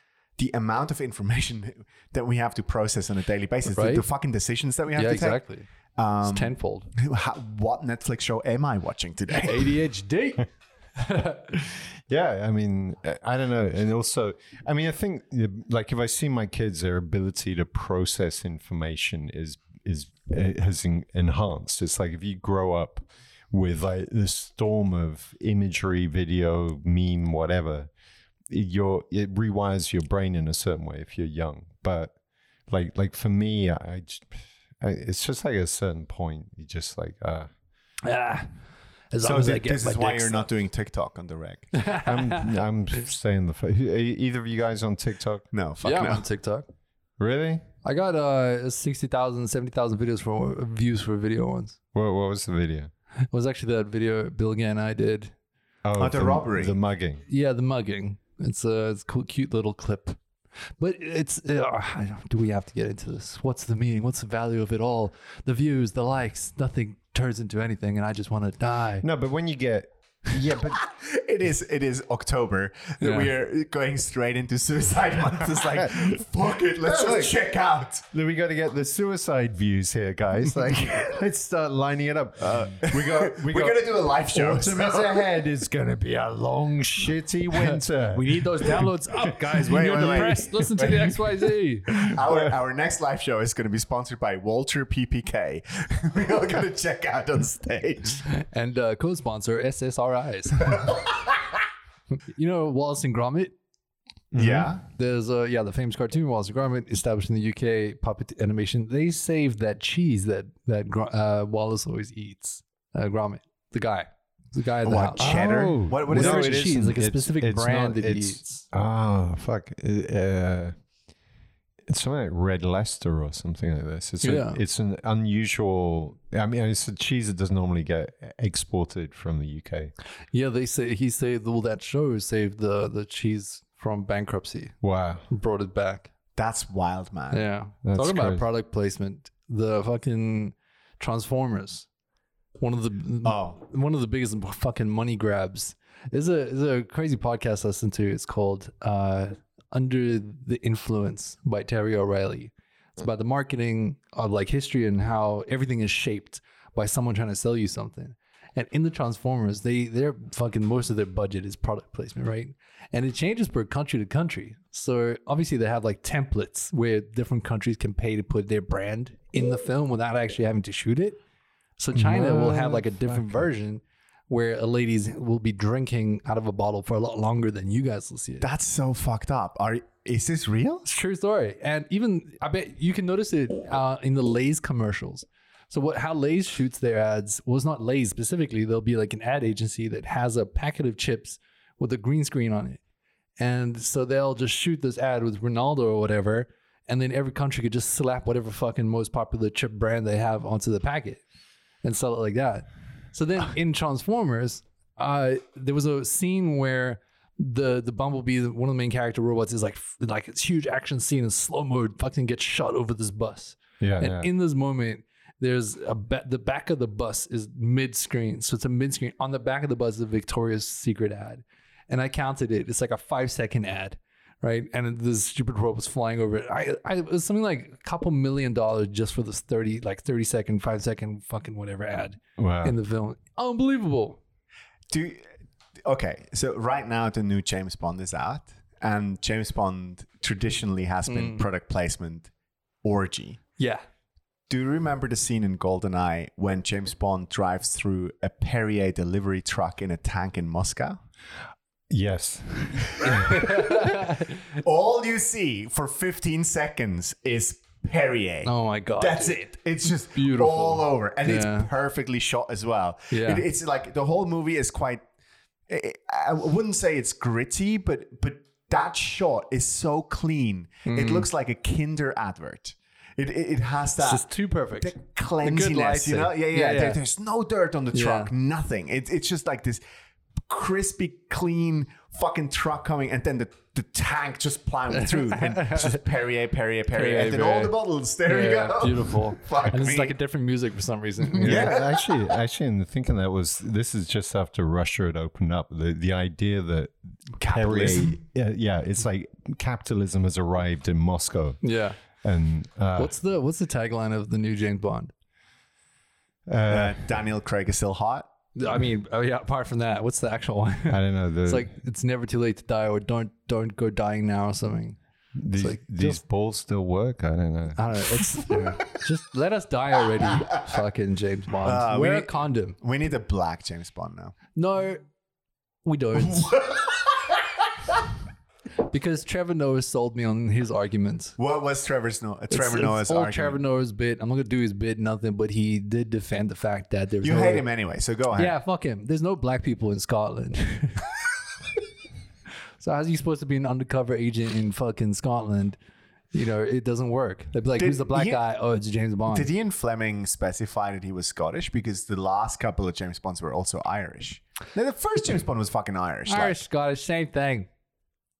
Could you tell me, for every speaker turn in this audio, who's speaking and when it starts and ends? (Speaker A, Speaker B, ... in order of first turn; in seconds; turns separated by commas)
Speaker A: 0.4-5.4, Speaker B: 3.7-4.0, Speaker B: 4.9-5.7, Speaker A: 6.0-9.7, Speaker B: 6.2-6.9, Speaker B: 9.4-11.4, Speaker C: 11.5-27.9, Speaker C: 28.5-32.1, Speaker C: 32.7-37.5, Speaker B: 38.0-38.5, Speaker B: 39.1-40.5, Speaker A: 39.2-41.8, Speaker B: 41.8-42.4, Speaker C: 42.0-45.5, Speaker A: 45.5-46.2, Speaker B: 45.8-46.7, Speaker C: 47.2-47.6, Speaker B: 47.8-51.8, Speaker C: 51.9-52.9, Speaker B: 53.3-55.3, Speaker C: 55.8-57.2, Speaker A: 56.0-56.8, Speaker B: 57.3-60.2, Speaker B: 60.8-69.0, Speaker C: 69.0-70.8, Speaker A: 70.8-78.0, Speaker B: 73.0-73.3, Speaker C: 75.8-76.2, Speaker C: 76.8-77.3, Speaker C: 78.1-88.8, Speaker A: 82.4-85.2, Speaker B: 87.6-91.9, Speaker A: 89.6-91.1, Speaker A: 92.0-98.2, Speaker B: 98.3-100.9, Speaker B: 102.3-103.5, Speaker C: 104.3-104.7, Speaker A: 104.3-104.8, Speaker B: 104.8-118.6, Speaker A: 114.8-116.7, Speaker C: 115.2-120.7, Speaker C: 121.9-129.9, Speaker B: 124.2-124.6, Speaker B: 130.3-134.7, Speaker C: 134.8-135.2, Speaker B: 135.3-136.1, Speaker A: 136.3-137.5, Speaker B: 137.3-141.9, Speaker C: 137.8-138.4, Speaker B: 142.6-171.2, Speaker A: 143.2-143.6, Speaker B: 171.8-178.5, Speaker C: 172.1-173.2, Speaker A: 178.4-180.8, Speaker B: 180.8-192.8, Speaker B: 193.4-201.2, Speaker B: 201.8-234.2, Speaker C: 213.8-214.3, Speaker C: 232.4-232.8, Speaker A: 234.9-235.2, Speaker A: 235.8-242.3, Speaker B: 241.1-241.4, Speaker A: 242.8-243.4, Speaker B: 243.6-243.8, Speaker A: 244.5-251.0, Speaker C: 251.9-253.5, Speaker A: 253.0-253.6, Speaker B: 253.0-254.2, Speaker A: 254.6-265.0, Speaker B: 258.4-259.5, Speaker B: 260.1-261.7, Speaker B: 263.1-263.4, Speaker A: 265.7-274.2, Speaker B: 270.9-271.3, Speaker B: 274.0-277.0, Speaker A: 274.8-279.8, Speaker B: 277.9-278.3, Speaker A: 280.5-290.1, Speaker B: 284.9-286.0, Speaker B: 286.9-287.7, Speaker B: 288.2-291.8, Speaker A: 291.4-292.1, Speaker C: 291.4-301.6, Speaker A: 297.4-298.2, Speaker B: 301.6-302.0, Speaker C: 302.2-303.1, Speaker B: 303.0-305.1, Speaker C: 306.5-307.0, Speaker A: 306.7-308.3, Speaker B: 308.5-315.0, Speaker C: 310.9-311.7, Speaker C: 315.4-317.8, Speaker B: 315.6-316.2, Speaker B: 317.8-322.8, Speaker A: 321.6-324.4, Speaker B: 324.5-325.0, Speaker B: 325.8-326.6, Speaker A: 326.3-327.3, Speaker B: 328.9-331.3, Speaker A: 331.4-333.6, Speaker B: 332.5-337.6, Speaker A: 337.2-338.6, Speaker B: 338.4-341.1, Speaker B: 342.8-345.8, Speaker B: 346.3-349.5, Speaker A: 347.8-348.4, Speaker A: 349.3-356.6, Speaker B: 356.3-357.7